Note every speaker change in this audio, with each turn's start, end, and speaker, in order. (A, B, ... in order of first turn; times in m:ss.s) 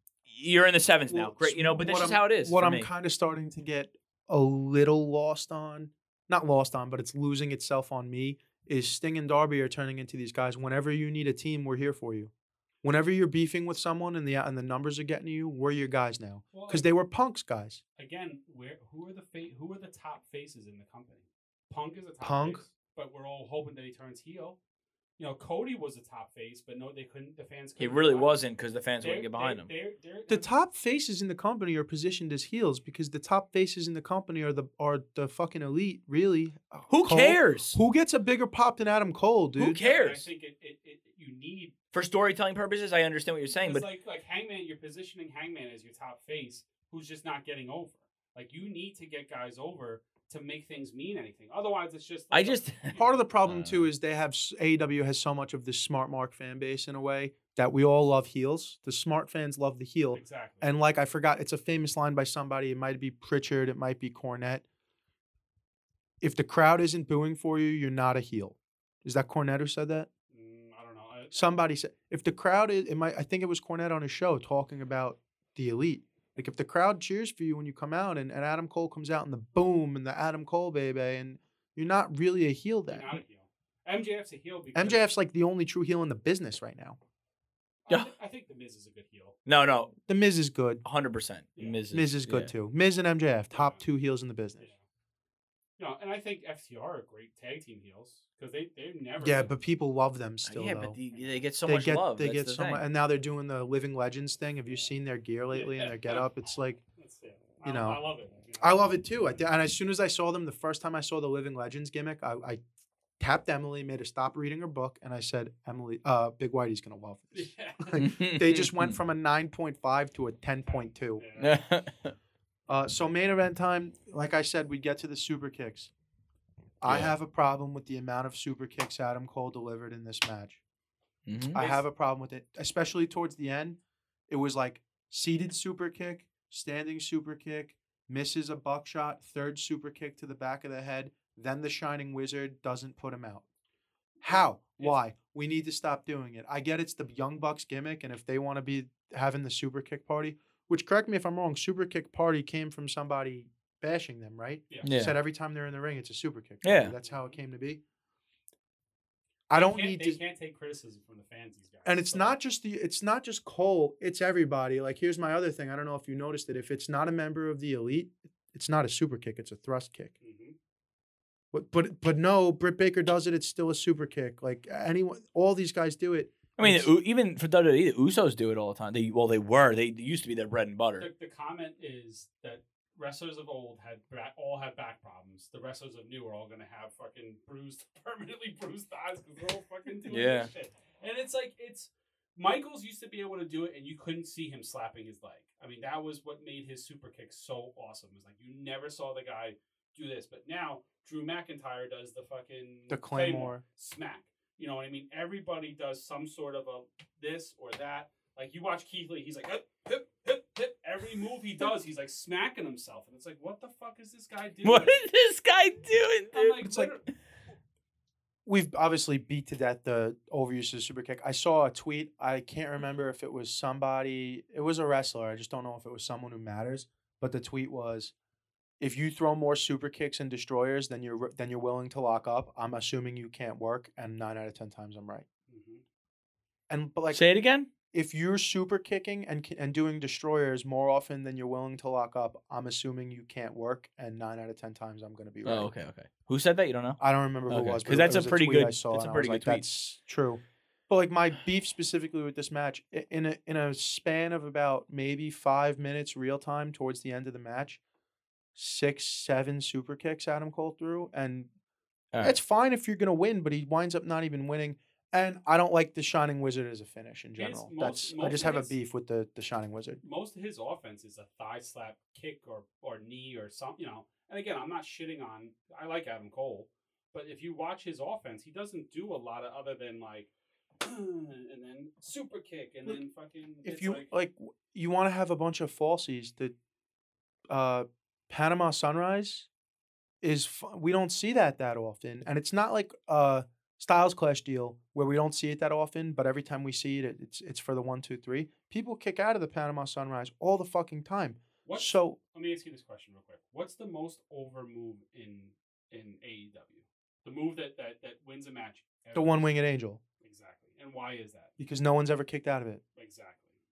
0:00.3-0:02.9 A
0:01.1-0:12.3 B
0:12.8-0:17.8 B
0:16.5-0:16.9 C
0:18.0-0:24.6 C
0:22.2-0:22.6 B
0:25.2-0:28.4 C
0:27.8-0:29.7 A
0:29.0-0:30.5 C
0:30.3-0:39.8 B
0:36.9-0:37.8 A
0:39.6-0:40.3 A
0:39.7-0:41.7 C
0:41.9-0:43.9 A
0:43.5-0:53.2 C
0:52.3-0:53.9 A
0:53.0-1:04.6 B
1:00.1-1:00.7 C
1:06.2-1:10.1 B
1:10.3-1:11.4 C
1:11.3-1:23.1 B
1:22.9-1:25.0 C
1:24.8-1:27.0 B
1:27.9-1:29.4 C
1:29.5-1:29.9 A
1:30.1-1:30.8 B
1:30.8-1:32.5 A
1:31.9-1:34.7 B
1:33.5-1:33.8 C
1:35.8-1:39.5 C
1:39.2-1:41.0 B
1:40.4-1:42.8 A
1:41.1-1:41.4 C
1:41.7-1:46.8 B
1:45.5-1:46.3 C
1:47.0-1:49.4 C
1:47.6-1:48.0 B
1:48.6-1:52.6 B
1:53.2-2:01.2 B
1:57.3-1:58.0 C
1:58.0-1:59.0 A
2:00.7-2:01.6 C
2:01.4-2:02.2 A
2:02.7-2:05.9 B
2:06.8-2:10.6 B
2:06.8-2:07.1 A
2:11.3-2:11.6 A
2:11.5-2:13.8 B
2:11.6-2:11.8 C
2:14.3-2:23.4 B
2:24.2-2:37.8 B
2:24.3-2:25.0 C
2:34.8-2:35.2 A
2:36.6-2:36.9 A
2:37.0-2:37.4 C
2:39.5-2:40.2 B
2:39.5-2:42.4 C
2:41.8-2:50.1 B
2:50.2-2:50.6 C
2:51.5-2:56.9 B
2:56.6-3:01.1 A
3:01.0-3:35.0 C
3:10.1-3:10.5 A
3:22.9-3:23.6 B
3:34.6-3:36.6 A
3:36.3-3:37.0 C
3:36.6-3:36.9 B
3:38.5-3:48.1 B
3:48.8-3:55.2 B
3:55.5-3:55.8 C
3:56.7-3:57.2 B
3:57.1-3:57.7 A
3:57.9-4:05.7 B
4:05.5-4:09.7 A
4:07.0-4:17.8 B
4:18.6-4:21.5 B
4:22.2-4:30.0 B
4:27.4-4:28.8 C
4:30.0-4:40.3 C
4:40.8-4:44.1 C
4:43.6-4:46.5 B
4:47.5-4:49.5 B
4:50.2-5:02.2 B
5:01.6-5:09.5 C
5:09.1-5:10.0 B
5:10.2-5:11.5 C
5:11.6-5:12.8 B
5:13.0-5:13.6 C